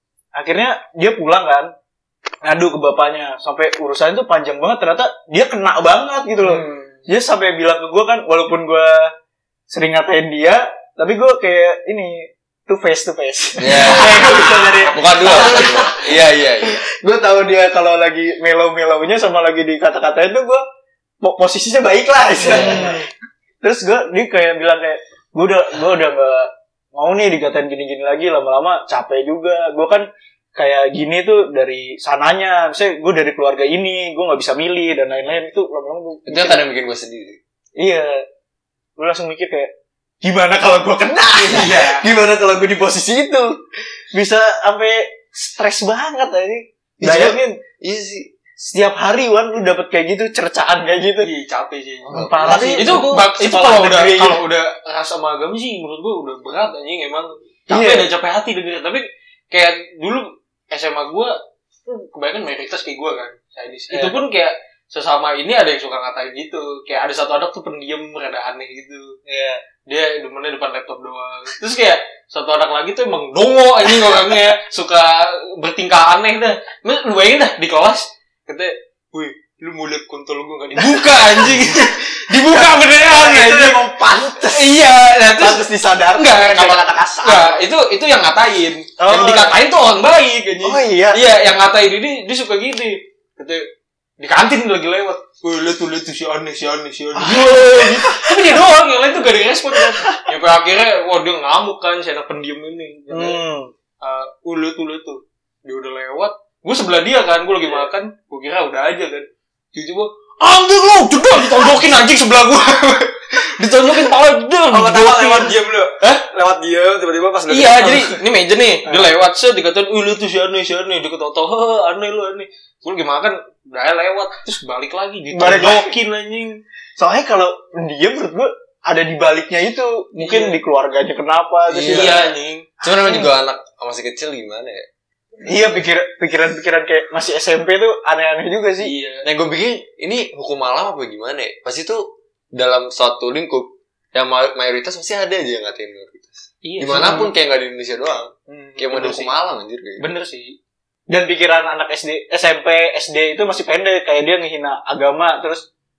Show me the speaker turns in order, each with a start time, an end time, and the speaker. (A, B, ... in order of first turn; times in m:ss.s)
0:00.3-0:01.7 A
0:02.4-0:09.1 A
0:06.4-0:07.0 B
0:09.7-0:20.6 A
0:13.6-0:16.8 C
0:14.0-0:14.4 B
0:21.2-0:23.0 A
0:22.5-0:22.9 C
0:22.6-0:22.9 B
0:23.6-0:36.6 A
0:36.3-0:37.4 C
0:37.8-0:38.2 A
0:39.0-0:39.7 A
0:40.2-0:43.5 A
0:41.4-0:42.0 B
0:44.1-0:47.6 A
0:47.0-0:48.3 C
0:48.6-0:51.3 A
0:51.2-1:01.3 B
0:52.1-0:52.8 C
0:52.1-0:54.4 A
0:52.4-0:53.1 D
0:57.7-0:58.1 A
1:01.9-1:09.1 B
1:03.9-1:04.2 A
1:09.2-1:09.6 A
1:09.9-1:23.8 B
1:22.3-1:24.7 A
1:24.4-1:33.6 B
1:25.4-1:27.6 A
1:29.0-1:29.6 A
1:30.6-1:31.3 A
1:34.2-1:43.4 B
1:37.2-1:38.6 A
1:39.7-1:40.3 A
1:43.1-1:43.7 A
1:44.0-1:56.2 B
1:54.7-1:58.0 D
1:54.9-1:55.5 A
1:57.5-2:06.6 B
1:57.8-1:58.0 A
2:05.3-2:05.9 A
2:07.0-2:13.3 A
2:10.2-2:10.6 B
2:11.7-2:12.7 B
2:11.7-2:12.3 C
2:12.8-2:14.9 C
2:15.4-2:18.9 A
2:18.8-2:19.2 B
2:19.2-2:30.1 C
2:26.6-2:27.3 B
2:28.5-2:29.3 B
2:30.0-2:30.5 B
2:31.1-2:35.6 A